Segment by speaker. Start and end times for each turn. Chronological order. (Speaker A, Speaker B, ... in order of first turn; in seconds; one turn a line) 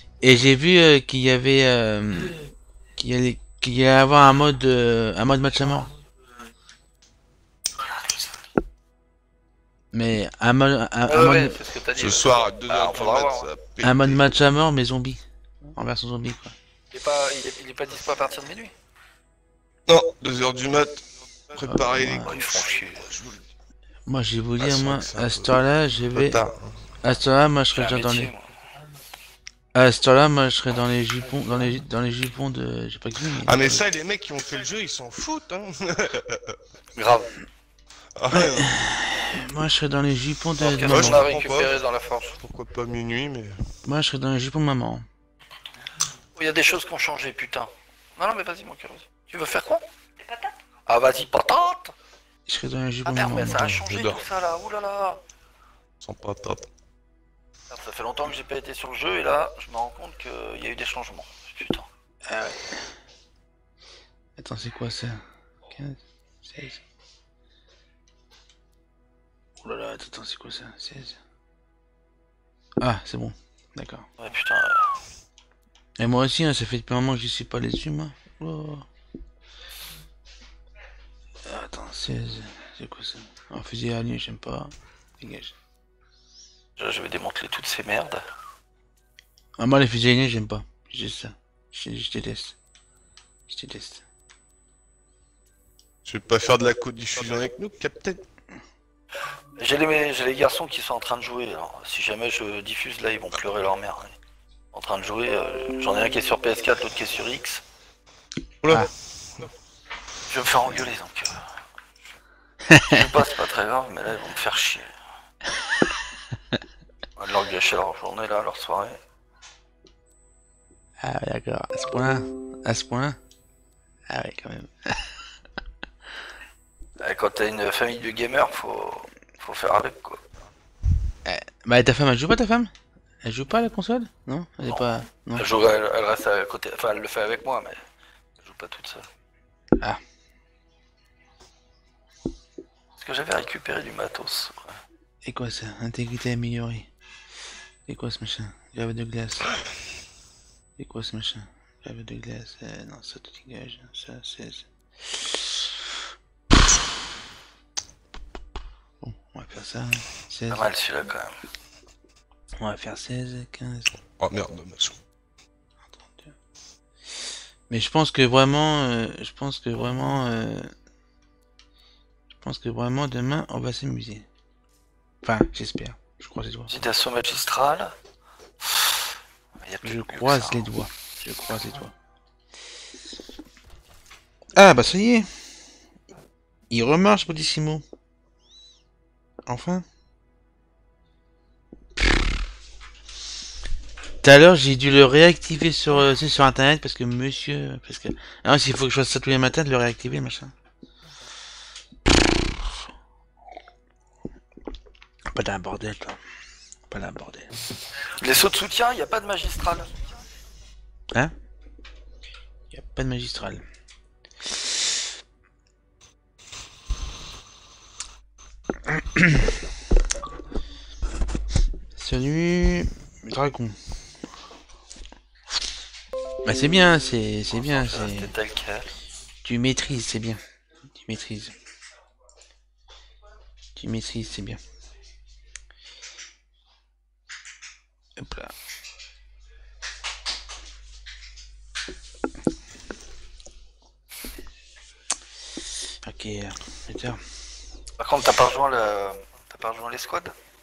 Speaker A: 0.2-2.4
Speaker A: 3.0-5.9
Speaker A: 9.9-11.6
Speaker B: 11.1-13.5
Speaker C: 12.0-14.2
Speaker A: 13.8-15.2
Speaker A: 15.8-16.5
Speaker B: 16.9-18.7
Speaker C: 19.9-23.4
Speaker A: 21.6-22.4
Speaker B: 22.2-23.1
Speaker A: 24.1-26.5
Speaker C: 24.6-25.6
Speaker C: 26.1-26.8
Speaker A: 27.0-28.3
Speaker B: 27.7-28.4
Speaker A: 29.8-33.8
Speaker C: 33.4-36.6
Speaker B: 37.0-37.4
Speaker C: 38.2-38.8
Speaker A: 38.3-41.3
Speaker B: 40.6-42.4
Speaker C: 40.8-43.6
Speaker A: 43.9-45.1
Speaker B: 46.4-51.9
Speaker A: 52.5-54.0
Speaker B: 53.0-55.2
Speaker C: 53.5-54.2
Speaker C: 56.0-56.7
Speaker B: 57.7-61.9
Speaker A: 62.3-62.8
Speaker A: 64.4-65.2
Speaker A: 65.7-66.8
Speaker A: 69.6-71.2
Speaker A: 72.8-74.1
Speaker B: 74.2-74.9
Speaker A: 76.0-78.9
Speaker A: 81.5-85.5
Speaker B: 86.8-88.2
Speaker A: 89.6-92.6
Speaker A: 93.5-94.0
Speaker C: 96.0-98.2
Speaker B: 99.6-104.2
Speaker B: 104.7-107.6
Speaker C: 108.6-109.5
Speaker B: 110.3-111.4
Speaker A: 112.7-113.0
Speaker B: 112.8-114.9
Speaker B: 117.2-119.0
Speaker A: 121.0-123.2
Speaker A: 124.1-125.1
Speaker B: 127.0-130.2
Speaker A: 131.3-132.7
Speaker A: 133.2-135.5
Speaker B: 135.3-137.8
Speaker B: 138.4-139.1
Speaker B: 143.0-144.8
Speaker A: 145.2-146.9
Speaker A: 147.9-149.5
Speaker A: 150.8-155.6
Speaker A: 159.0-160.7
Speaker B: 160.5-161.4
Speaker A: 162.6-163.9
Speaker C: 164.2-165.0
Speaker A: 165.9-166.3
Speaker A: 167.7-170.7
Speaker A: 172.3-174.3
Speaker A: 175.2-176.8
Speaker B: 176.7-177.9
Speaker B: 178.6-179.1
Speaker B: 179.6-180.7
Speaker A: 179.8-181.9
Speaker A: 184.6-185.5
Speaker A: 186.7-187.8
Speaker A: 189.5-189.8
Speaker A: 194.2-200.5
Speaker A: 205.3-206.2
Speaker A: 206.9-207.5
Speaker B: 208.2-210.0
Speaker A: 212.7-213.7
Speaker A: 218.9-219.5
Speaker A: 222.0-223.8
Speaker A: 226.4-228.3
Speaker B: 227.5-228.9
Speaker A: 229.4-230.4
Speaker A: 230.9-231.6
Speaker A: 233.8-234.6
Speaker A: 238.2-238.5
Speaker A: 246.0-247.2
Speaker B: 248.0-250.3